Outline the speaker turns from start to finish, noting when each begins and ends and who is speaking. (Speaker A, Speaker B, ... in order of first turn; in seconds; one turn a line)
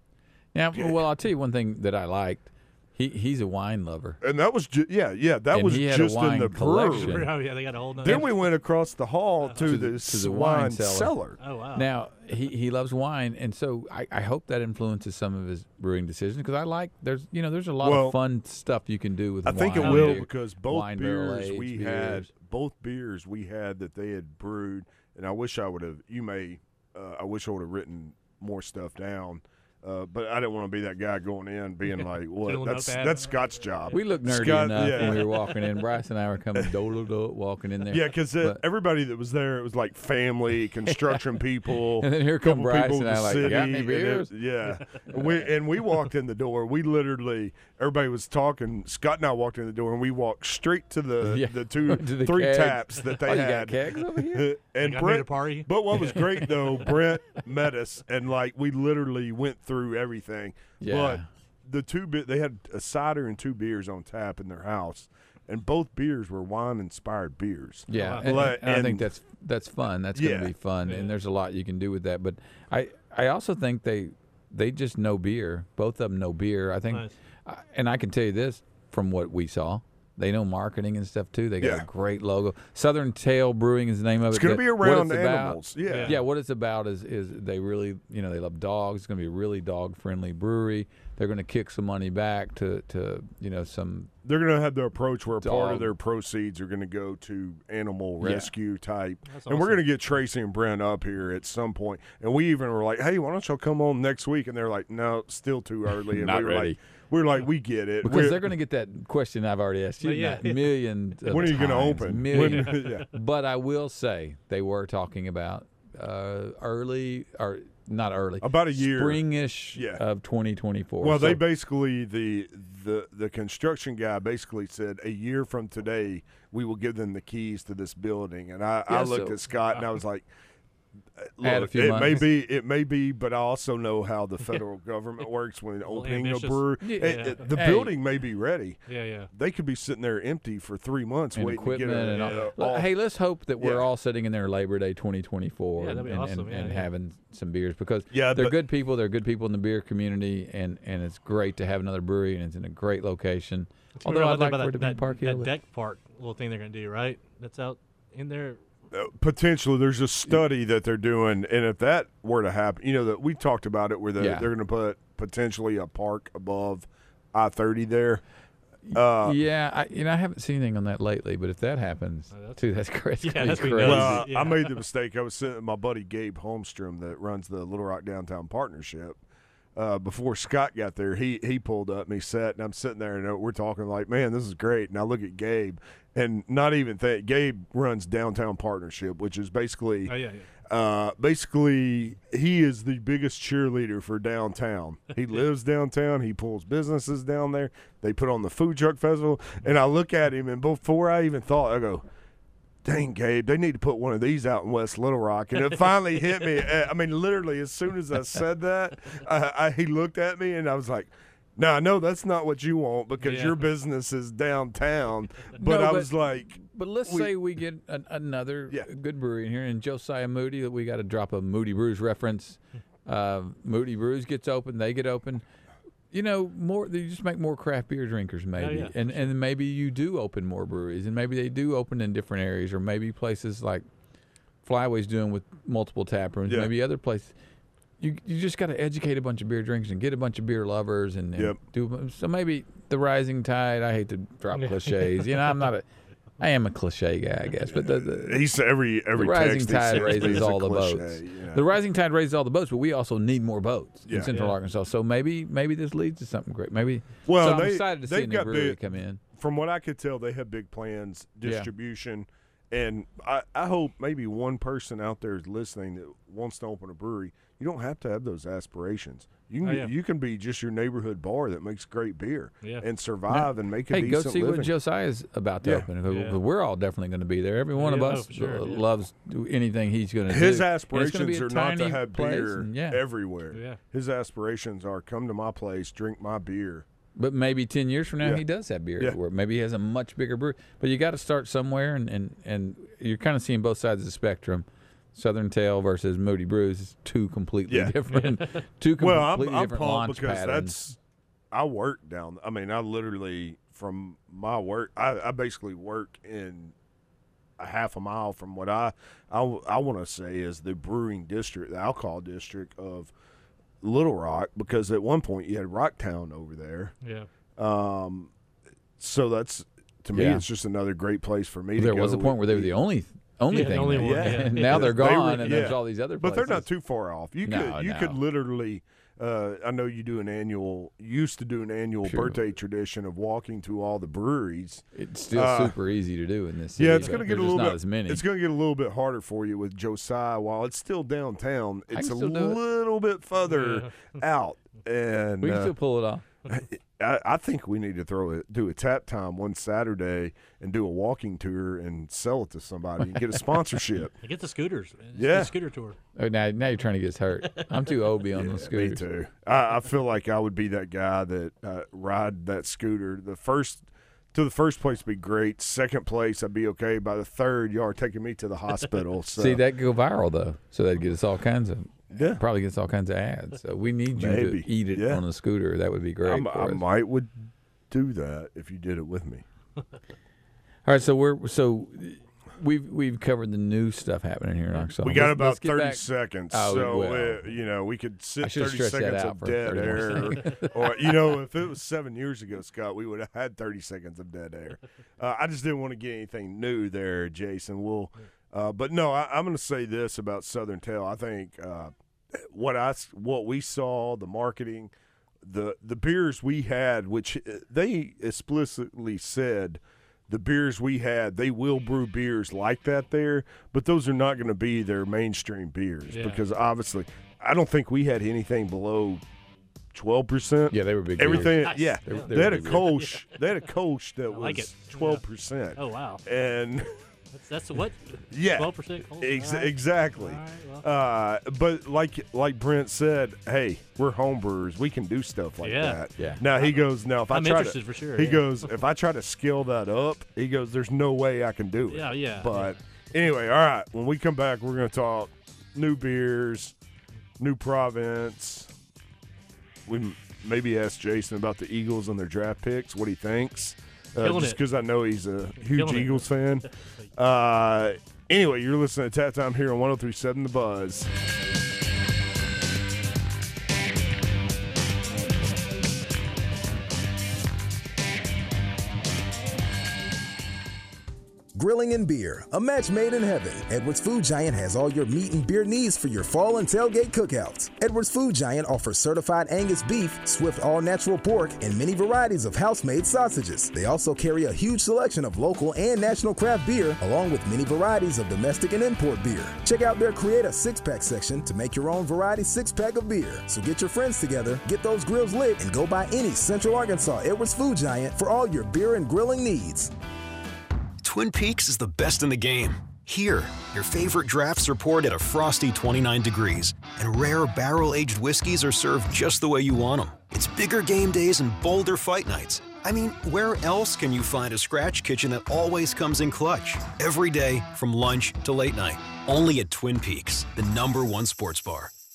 Speaker A: 0.5-4.2
Speaker B: 0.8-1.0
Speaker B: 4.2-7.2
Speaker A: 5.5-7.3
Speaker C: 6.9-8.5
Speaker B: 8.0-11.4
Speaker C: 9.4-9.7
Speaker A: 9.6-11.1
Speaker C: 11.4-11.9
Speaker A: 11.8-22.3
Speaker B: 17.8-18.2
Speaker B: 19.5-35.4
Speaker C: 19.8-20.2
Speaker C: 31.9-35.5
Speaker A: 33.9-38.6
Speaker B: 37.9-69.1
Speaker A: 42.0-44.3
Speaker C: 44.6-45.1
Speaker A: 51.2-54.5
Speaker C: 54.8-56.9
Speaker A: 60.8-61.2
Speaker A: 67.9-94.1
Speaker C: 67.9-68.5
Speaker B: 70.2-70.5
Speaker C: 70.9-71.1
Speaker B: 81.6-81.9
Speaker B: 84.3-86.2
Speaker C: 85.9-86.2
Speaker B: 94.2-108.5
Speaker A: 95.4-95.9
Speaker A: 98.2-98.5
Speaker C: 99.3-99.8
Speaker A: 106.1-106.8
Speaker A: 108.0-121.4
Speaker C: 110.0-110.8
Speaker B: 111.3-113.1
Speaker C: 112.4-112.7
Speaker B: 118.4-120.0
Speaker B: 121.0-130.3
Speaker A: 128.9-129.4
Speaker B: 131.2-142.9
Speaker A: 131.4-132.2
Speaker C: 135.9-137.5
Speaker A: 136.8-137.9
Speaker C: 138.9-139.3
Speaker A: 141.3-155.5
Speaker C: 142.1-142.5
Speaker B: 143.6-143.9
Speaker C: 145.8-146.9
Speaker B: 148.1-148.6
Speaker C: 153.9-158.6
Speaker B: 158.9-168.2
Speaker A: 164.2-164.5
Speaker A: 168.9-174.3
Speaker B: 168.9-169.4
Speaker C: 172.3-172.6
Speaker C: 173.2-174.8
Speaker B: 173.8-179.2
Speaker B: 179.8-190.1
Speaker C: 190.1-190.5
Speaker B: 190.7-202.0
Speaker B: 202.8-217.3
Speaker C: 213.2-213.7
Speaker A: 215.6-225.4
Speaker A: 226.1-233.8
Speaker C: 228.6-229.3
Speaker A: 234.6-237.3
Speaker A: 238.0-245.8
Speaker C: 244.5-245.6
Speaker A: 246.4-248.4
Speaker B: 247.7-251.7
Speaker A: 249.2-259.2
Speaker C: 249.9-250.4
Speaker B: 254.1-254.4
Speaker B: 257.3-258.8
Speaker B: 259.3-274.7
Speaker A: 261.4-261.7
Speaker C: 269.6-269.9
Speaker A: 273.3-283.0
Speaker C: 276.1-276.4
Speaker C: 277.8-278.8
Speaker B: 280.3-286.9
Speaker C: 283.5-283.8
Speaker A: 287.2-300.8
Speaker B: 297.7-297.9
Speaker C: 298.1-298.6
Speaker B: 299.0-301.0
Speaker B: 301.5-306.7
Speaker B: 307.6-313.1
Speaker B: 313.8-316.9
Speaker C: 317.0-317.3
Speaker B: 317.6-318.3
Speaker B: 319.0-322.7
Speaker A: 320.1-320.4
Speaker A: 321.8-326.7
Speaker C: 323.5-324.9
Speaker B: 323.9-335.8
Speaker A: 327.4-328.2
Speaker A: 332.0-332.4
Speaker A: 334.9-338.2
Speaker B: 336.8-345.7
Speaker A: 341.9-342.6
Speaker C: 343.5-344.1
Speaker A: 345.4-346.2
Speaker B: 346.5-354.1
Speaker C: 354.2-356.0
Speaker B: 355.2-355.5
Speaker A: 356.2-359.1
Speaker B: 358.3-369.6
Speaker A: 369.4-376.8
Speaker B: 372.1-372.4
Speaker B: 374.1-375.2
Speaker B: 376.2-377.3
Speaker B: 377.9-379.4
Speaker A: 380.9-387.5
Speaker B: 385.0-404.9
Speaker A: 388.4-391.4
Speaker B: 405.4-419.2
Speaker C: 416.1-416.5
Speaker B: 419.9-426.9
Speaker A: 420.7-422.9
Speaker C: 421.6-423.5
Speaker C: 424.3-425.2
Speaker C: 425.8-426.2
Speaker C: 427.3-430.8
Speaker B: 428.3-446.7
Speaker C: 435.6-438.7
Speaker A: 436.2-436.4
Speaker C: 441.9-442.8
Speaker B: 447.4-448.7
Speaker B: 449.9-461.1
Speaker C: 454.2-454.6
Speaker C: 455.7-456.7
Speaker D: 471.6-499.9
Speaker E: 501.0-521.9